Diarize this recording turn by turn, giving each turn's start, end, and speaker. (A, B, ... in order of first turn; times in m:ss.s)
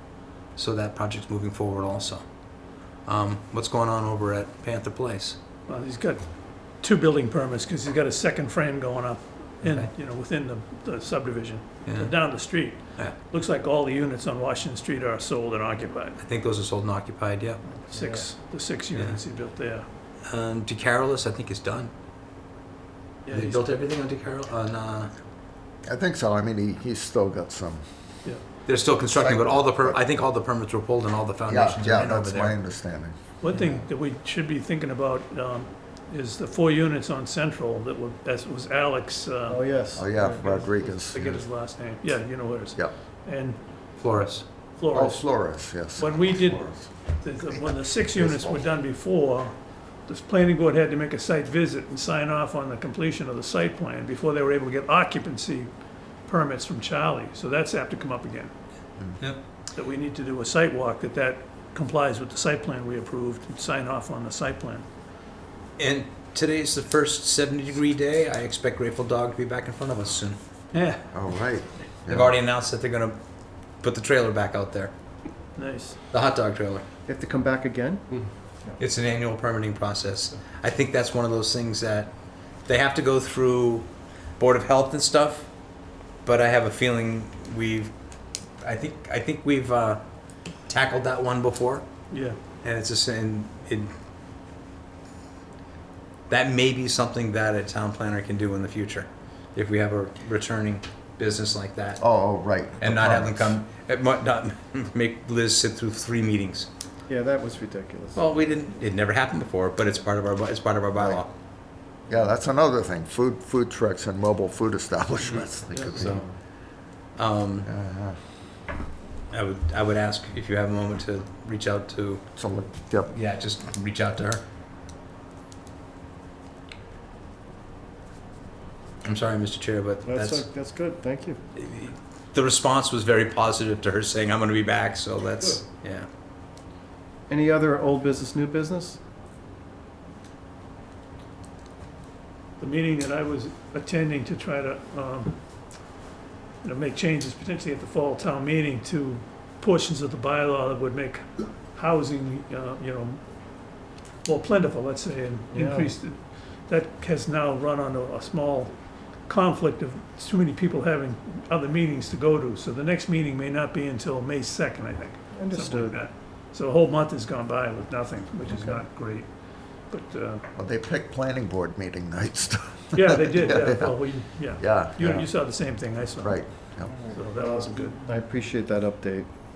0:00.6-0:02.2 A
0:03.1-0:05.4 A
0:05.7-0:16.2 B
0:09.6-0:09.9 A
0:11.9-0:12.1 A
0:16.2-0:17.6 A
0:17.9-0:19.9 B
0:17.9-0:18.2 C
0:20.3-0:21.9 A
0:23.2-0:23.7 B
0:23.3-0:25.1 A
0:25.8-0:27.8 D
0:28.7-0:32.6 A
0:29.2-0:30.2 D
0:31.4-0:33.7 D
0:33.4-0:39.7 B
0:39.5-0:40.7 C
0:40.0-0:41.4 D
0:41.1-0:44.2 B
0:44.0-0:44.5 A
0:44.8-0:55.7 B
0:44.9-0:48.6 D
0:56.3-0:58.5 B
0:59.7-1:04.9 B
1:05.8-1:10.4 A
1:10.7-1:11.1 B
1:11.1-1:12.3 D
1:12.1-1:13.2 A
1:13.8-1:14.9 A
1:15.6-1:16.0 B
1:16.1-1:16.8 A
1:17.1-1:18.8 C
1:18.8-1:22.1 A
1:22.7-1:25.5 A
1:26.2-1:27.9 A
1:28.6-1:30.0 A
1:30.7-1:31.9 A
1:32.1-1:32.4 B
1:32.6-1:33.9 A
1:36.3-1:42.0 A
1:42.0-1:43.6 D
1:42.8-1:46.7 A
1:47.1-1:48.3 C
1:48.1-1:51.3 A
1:52.1-1:56.3 D
1:55.9-1:56.3 A
1:57.2-1:57.7 A
1:57.6-1:58.2 D
1:59.3-2:02.2 A
2:02.4-2:03.1 D
2:03.1-2:04.4 A
2:09.0-2:10.5 A
2:10.0-2:11.4 C
2:11.6-2:16.1 A
2:17.3-2:19.0 C
2:22.6-2:25.4 B
2:26.6-2:33.7 B
2:34.2-2:50.5 B
2:35.5-2:36.0 C
2:45.3-2:46.0 C
2:48.5-2:48.8 C
2:50.6-2:55.3 D
2:52.9-2:58.0 B
2:56.2-2:56.9 D
2:57.4-2:59.3 C